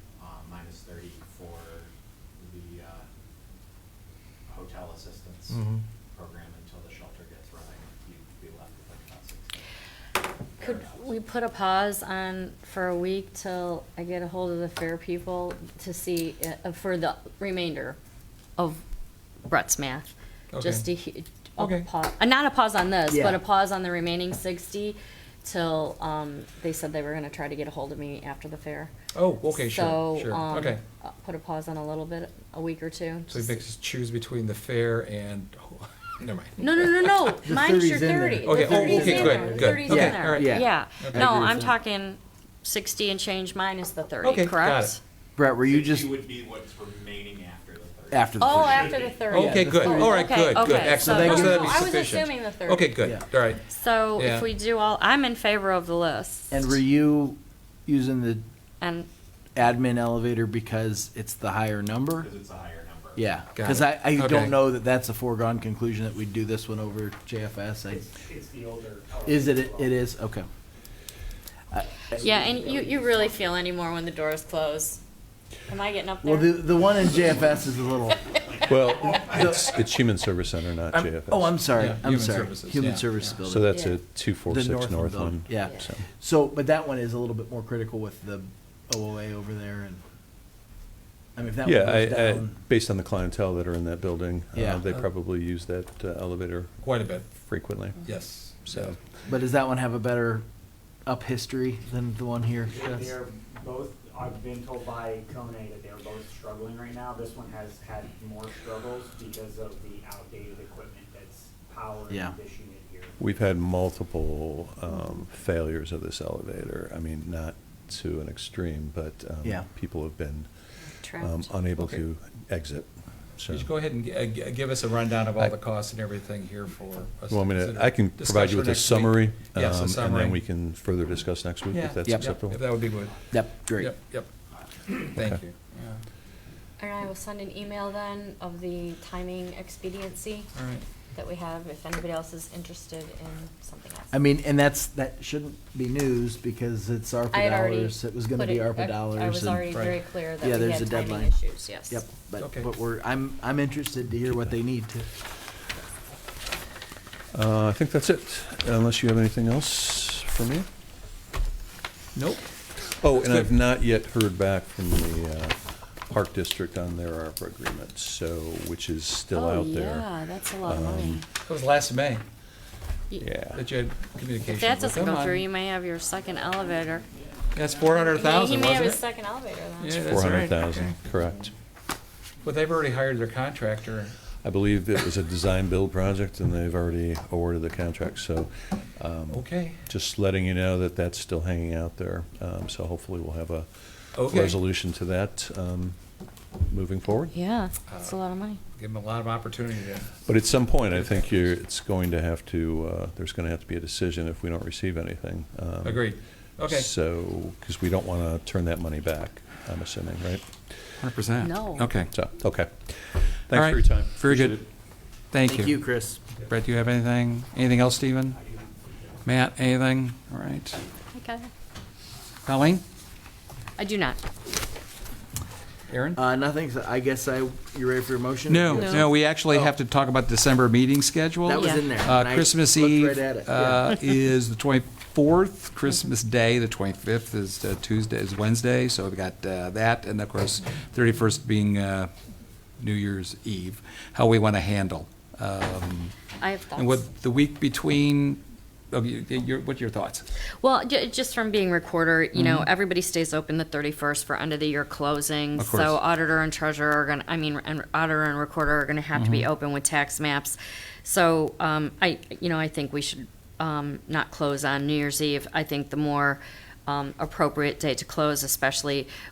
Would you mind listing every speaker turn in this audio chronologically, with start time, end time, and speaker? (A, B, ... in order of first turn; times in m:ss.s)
0:00.2-0:03.0 A
0:04.5-0:09.5 A
0:05.5-0:05.8 B
0:10.6-0:11.1 A
0:10.6-0:18.0 C
0:18.6-0:18.8 C
0:19.4-0:28.9 C
0:20.5-0:20.9 B
0:21.6-0:21.9 B
0:23.0-0:23.4 D
0:29.1-0:30.8 B
0:29.5-0:33.6 C
0:33.3-0:37.4 B
0:36.6-0:45.0 C
0:37.4-0:41.7 D
0:38.4-0:41.4 B
0:44.2-0:44.9 B
0:45.4-0:46.2 D
0:45.6-0:49.2 A
0:48.1-0:50.3 D
0:48.4-0:56.8 C
0:49.3-0:54.5 B
0:51.0-0:51.8 D
0:53.0-0:53.2 D
0:56.5-0:58.4 D
0:58.8-0:59.1 C
0:59.5-1:02.3 D
1:02.2-1:03.3 A
1:03.1-1:08.2 D
1:03.6-1:04.6 B
1:08.0-1:09.9 E
1:09.2-1:10.5 D
1:11.7-1:12.7 D
1:12.2-1:15.0 C
1:12.6-1:13.4 E
1:15.7-1:17.2 C
1:16.2-1:18.2 D
1:18.6-1:21.8 F
1:19.2-1:19.7 D
1:20.9-1:23.7 D
1:21.7-1:23.4 B
1:23.4-1:26.0 F
1:23.7-1:24.0 C
1:24.4-1:30.0 D
1:31.3-1:32.6 D
1:31.6-1:38.1 F
1:34.5-1:34.8 D
1:36.8-1:37.2 B
1:38.0-1:39.0 B
1:38.6-1:39.0 F
1:39.3-1:40.4 D
1:41.0-1:43.1 D
1:42.7-1:53.2 E
1:52.1-1:52.4 D
1:53.2-2:00.5 F
2:00.9-2:01.5 C
2:01.2-2:03.7 F
2:01.8-2:02.0 B
2:03.5-2:10.4 B
2:07.3-2:12.7 F
2:11.7-2:14.3 B
2:12.1-2:12.3 D
2:13.3-2:13.9 D
2:14.9-2:16.0 B
2:16.8-2:20.5 C
2:20.5-2:20.8 B
2:21.1-2:24.2 C
2:24.1-2:35.1 D
2:27.3-2:32.0 C
2:29.7-2:30.0 B
2:32.4-2:32.7 B
2:37.3-2:40.7 F
2:42.1-2:42.5 B
2:42.8-2:51.2 F
2:43.0-2:43.5 B
2:49.3-2:51.2 C
2:51.4-2:52.2 B
2:53.2-2:53.7 F
2:53.4-2:55.4 B
2:54.4-2:57.0 C
2:57.5-2:59.0 B
2:58.1-3:00.2 C
2:59.8-3:01.0 B
3:00.0-3:01.5 F
3:02.4-3:04.1 B
3:04.4-3:16.0 F
3:09.3-3:09.8 B
3:14.1-3:14.6 B
3:16.6-3:17.3 F
3:17.3-3:18.6 C
3:17.9-3:18.2 B
3:18.7-3:20.2 B
3:20.2-3:31.0 F
3:20.9-3:21.4 B
3:25.8-3:26.9 B
3:31.0-3:32.1 B
3:31.4-3:31.9 C
3:32.0-3:34.6 F
3:33.5-3:34.6 B
3:35.3-3:38.4 B
3:35.4-3:36.2 D
3:39.2-3:40.8 B
3:41.1-3:41.5 C
3:42.4-3:42.8 B
3:43.8-3:44.2 C
3:45.9-3:46.2 B
3:46.1-3:49.7 D
3:48.5-4:02.1 B
3:48.7-3:49.1 C
3:51.4-3:53.9 D
3:51.5-3:51.8 C
4:02.8-4:06.2 B
4:06.4-4:07.0 C
4:06.7-4:10.3 B
4:10.6-4:29.1 C
4:12.3-4:12.7 B
4:15.6-4:16.0 B
4:19.1-4:19.5 B